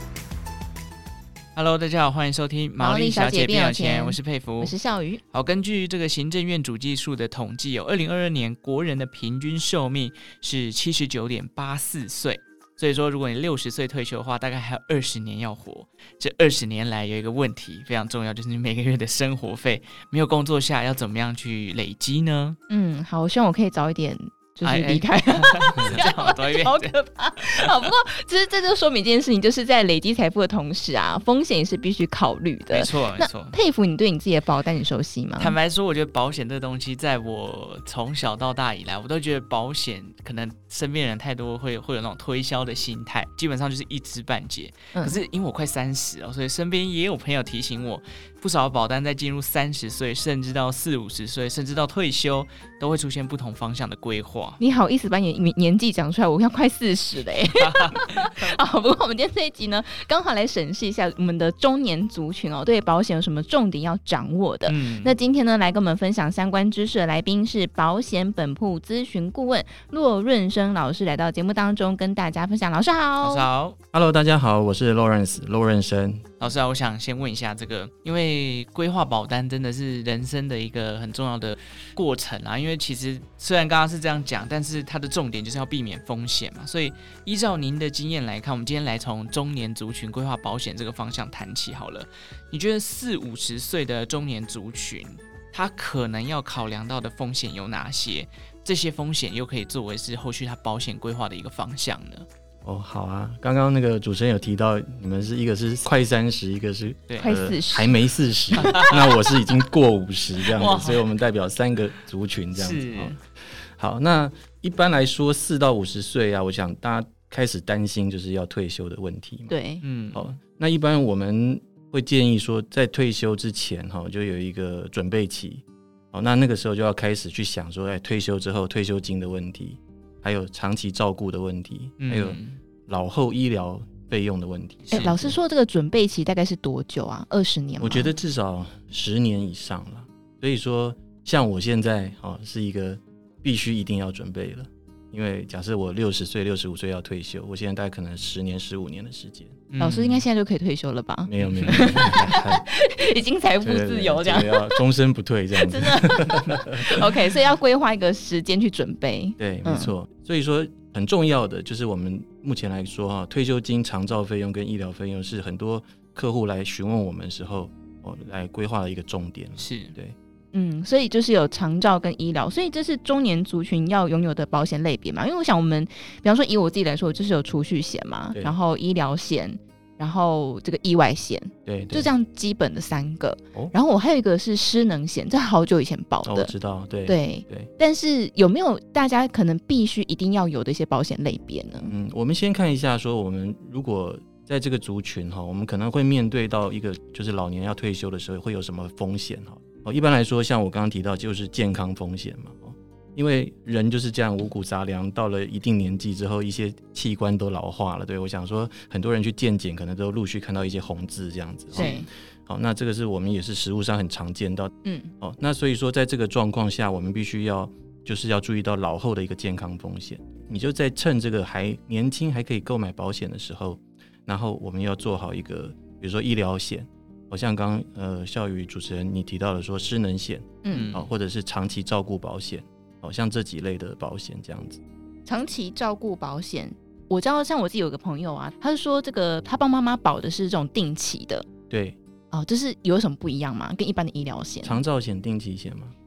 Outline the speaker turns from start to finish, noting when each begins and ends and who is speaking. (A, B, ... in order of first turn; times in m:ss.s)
0:01.5-0:04.7 A
0:02.8-0:05.2 B
0:05.3-0:22.6 A
0:22.7-0:35.6 B
0:24.6-0:27.0 A
0:32.7-0:33.6 A
0:35.4-0:54.6 A
0:54.6-1:13.5 B
0:57.6-0:58.3 A
1:04.7-1:05.1 A
1:13.2-1:13.8 A
1:13.9-1:16.2 C
1:16.4-1:42.3 A
1:42.6-1:59.5 C
1:47.2-1:48.0 B
1:48.5-1:49.0 B
1:48.6-1:49.0 A
1:50.5-1:51.1 A
1:52.6-1:53.2 A
1:59.5-1:59.8 B
1:59.8-2:00.3 A
2:00.1-2:15.3 C
2:12.0-2:12.6 A
2:14.8-2:15.2 A
2:14.9-2:18.1 B
2:17.8-2:29.6 C
2:29.7-2:30.2 A
2:29.8-2:34.8 B
2:31.2-2:32.6 C
2:31.4-2:31.9 A
2:33.6-2:37.0 C
2:35.6-2:39.9 B
2:39.4-2:50.2 C
2:49.6-2:49.9 A
2:50.5-3:06.5 B
3:01.7-3:02.1 C
3:06.2-3:07.7 C
3:07.0-3:11.9 B
3:11.8-3:54.8 C
3:31.7-3:32.0 A
3:31.7-3:32.1 B
3:34.8-3:35.1 B
3:50.6-3:50.9 B
3:50.7-3:51.1 A
3:55.2-4:01.4 B
4:01.7-4:02.0 C
4:02.3-4:04.8 B
4:04.6-4:05.9 C